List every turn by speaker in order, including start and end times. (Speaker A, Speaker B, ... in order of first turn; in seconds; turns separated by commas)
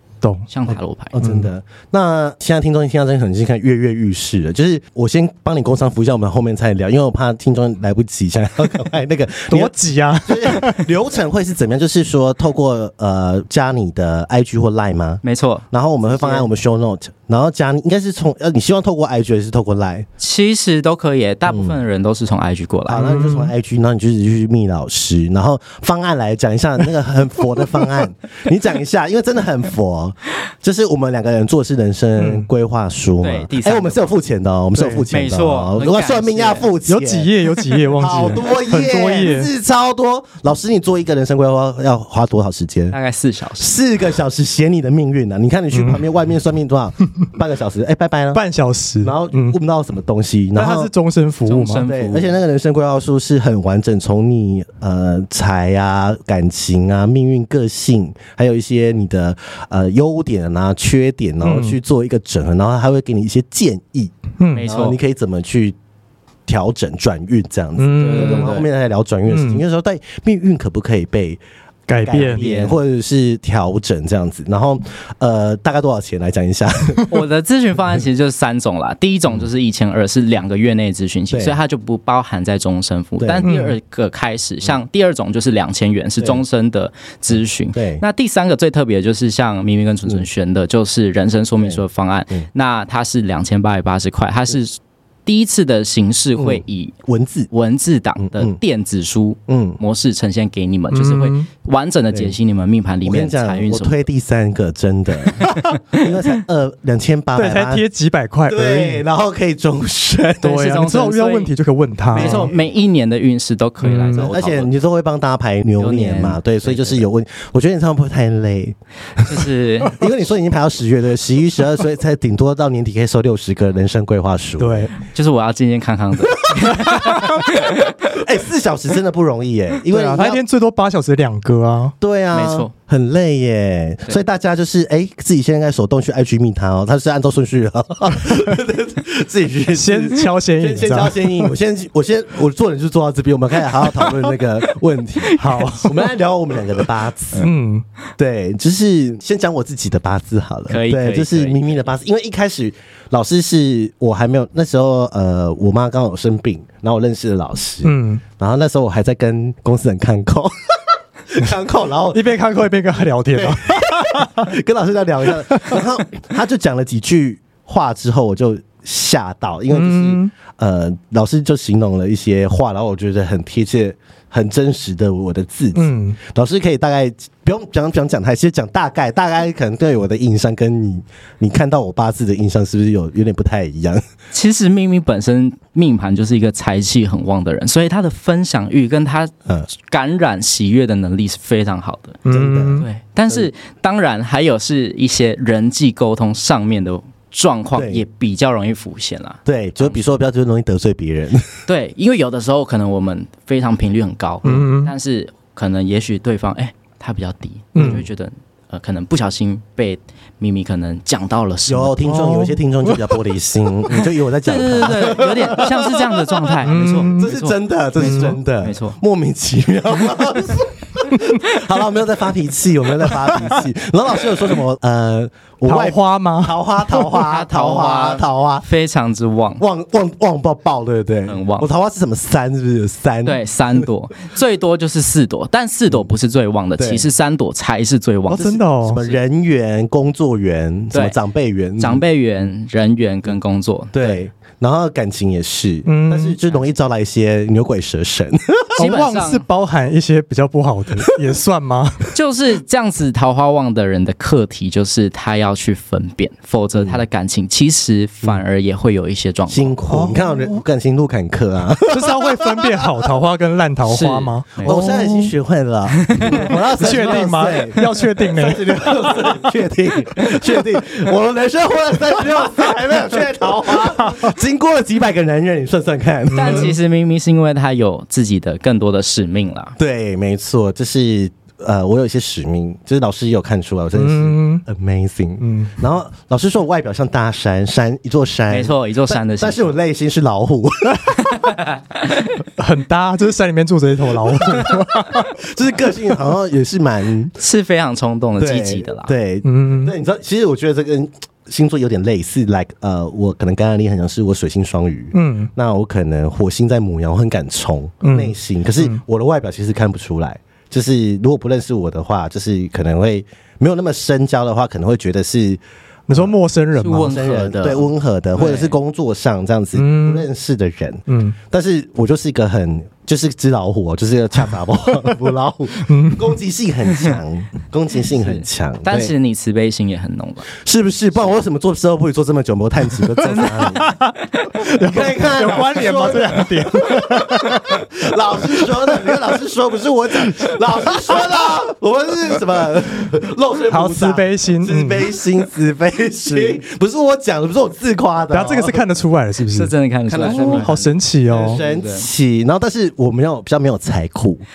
Speaker A: 0.5-1.1, Speaker B: 0.7-9.7, Speaker C: 1.2-1.5, Speaker C: 9.5-10.9, Speaker B: 10.2-20.1, Speaker A: 15.2-16.5, Speaker A: 20.2-23.1, Speaker B: 21.5-21.7, Speaker B: 22.9-37.3, Speaker C: 23.0-23.5, Speaker C: 32.2-32.5, Speaker A: 33.2-34.1, Speaker C: 34.7-35.1, Speaker A: 35.1-36.7, Speaker C: 36.9-39.5, Speaker B: 38.0-43.0, Speaker A: 42.9-43.7, Speaker B: 43.6-48.4, Speaker C: 45.8-46.0, Speaker C: 48.3-49.6, Speaker B: 49.0-50.9, Speaker C: 50.5-51.9, Speaker A: 51.5-52.3, Speaker B: 51.8-65.8, Speaker C: 61.4-61.8, Speaker C: 64.4-64.7, Speaker A: 64.5-65.0, Speaker B: 66.5-71.4, Speaker C: 67.8-68.6, Speaker A: 68.0-68.7, Speaker C: 69.3-69.6, Speaker C: 71.9-72.5, Speaker B: 72.0-77.1, Speaker A: 72.2-72.8, Speaker A: 77.1-96.9, Speaker B: 81.3-81.6, Speaker B: 83.2-83.5, Speaker C: 83.4-83.8, Speaker B: 87.7-88.0, Speaker B: 91.6-92.5, Speaker B: 96.4-97.5, Speaker A: 97.5-104.0, Speaker B: 98.2-98.6, Speaker B: 99.5-99.8, Speaker C: 100.9-101.5, Speaker B: 103.0-107.8, Speaker A: 105.7-106.0, Speaker C: 107.3-109.0, Speaker B: 108.5-110.5, Speaker A: 110.4-111.5, Speaker C: 110.4-112.5, Speaker A: 112.1-114.7, Speaker B: 112.1-112.6, Speaker C: 113.8-114.3, Speaker B: 114.2-124.9, Speaker A: 115.8-117.0, Speaker A: 119.2-120.0, Speaker C: 124.6-125.0, Speaker A: 125.1-128.2, Speaker B: 128.1-130.4, Speaker C: 129.9-131.9, Speaker B: 132.0-147.5, Speaker A: 132.3-132.7, Speaker C: 139.7-141.5, Speaker C: 145.4-146.0, Speaker C: 147.4-147.8, Speaker B: 148.2-162.3, Speaker A: 150.7-151.7, Speaker C: 157.8-158.2, Speaker C: 162.1-164.5, Speaker B: 163.3-184.0, Speaker C: 165.5-165.8, Speaker C: 169.7-170.3, Speaker C: 175.8-176.2, Speaker A: 184.3-192.2, Speaker C: 192.2-192.9, Speaker B: 192.3-193.5, Speaker A: 192.8-200.0, Speaker B: 197.8-198.0, Speaker B: 199.4-201.5, Speaker A: 201.7-212.0, Speaker C: 204.4-204.9, Speaker C: 207.8-208.0, Speaker B: 207.8-208.0, Speaker B: 211.7-228.7, Speaker C: 212.1-213.0, Speaker A: 214.4-219.0, Speaker C: 216.7-217.3, Speaker C: 218.0-218.3, Speaker C: 225.7-226.6, Speaker A: 227.1-229.6, Speaker B: 229.6-233.4, Speaker A: 231.3-231.7, Speaker A: 233.2-239.2, Speaker B: 236.8-237.1, Speaker C: 238.3-239.0, Speaker B: 238.4-242.0, Speaker A: 241.8-244.2, Speaker B: 243.9-248.8, Speaker C: 245.9-246.4, Speaker C: 248.8-252.1, Speaker A: 248.8-249.4, Speaker A: 252.1-259.8, Speaker B: 259.5-263.1, Speaker C: 259.9-260.6, Speaker C: 261.9-265.4, Speaker A: 263.9-264.8, Speaker B: 264.6-276.7, Speaker A: 265.9-266.5, Speaker C: 266.3-269.5, Speaker C: 273.8-274.3, Speaker C: 276.3-276.7, Speaker A: 276.3-279.8, Speaker B: 279.8-291.4, Speaker C: 284.0-284.6, Speaker C: 285.4-285.8, Speaker A: 288.5-289.7, Speaker A: 291.3-292.2, Speaker C: 292.6-295.3, Speaker B: 294.6-297.4, Speaker A: 297.4-299.1, Speaker B: 298.4-316.3, Speaker C: 299.4-299.9, Speaker C: 305.1-305.5, Speaker C: 308.0-309.0, Speaker C: 316.1-317.1, Speaker A: 316.8-318.8, Speaker B: 316.9-329.1, Speaker C: 319.8-320.3, Speaker C: 321.1-321.4, Speaker C: 325.8-326.3, Speaker A: 328.2-330.5, Speaker B: 330.5-333.9, Speaker C: 333.2-337.9, Speaker A: 333.2-334.5, Speaker B: 334.8-348.9, Speaker C: 338.6-339.1, Speaker C: 343.7-345.1, Speaker A: 346.3-346.6, Speaker C: 348.3-351.6, Speaker A: 349.5-350.9, Speaker B: 350.1-354.4, Speaker A: 351.4-352.1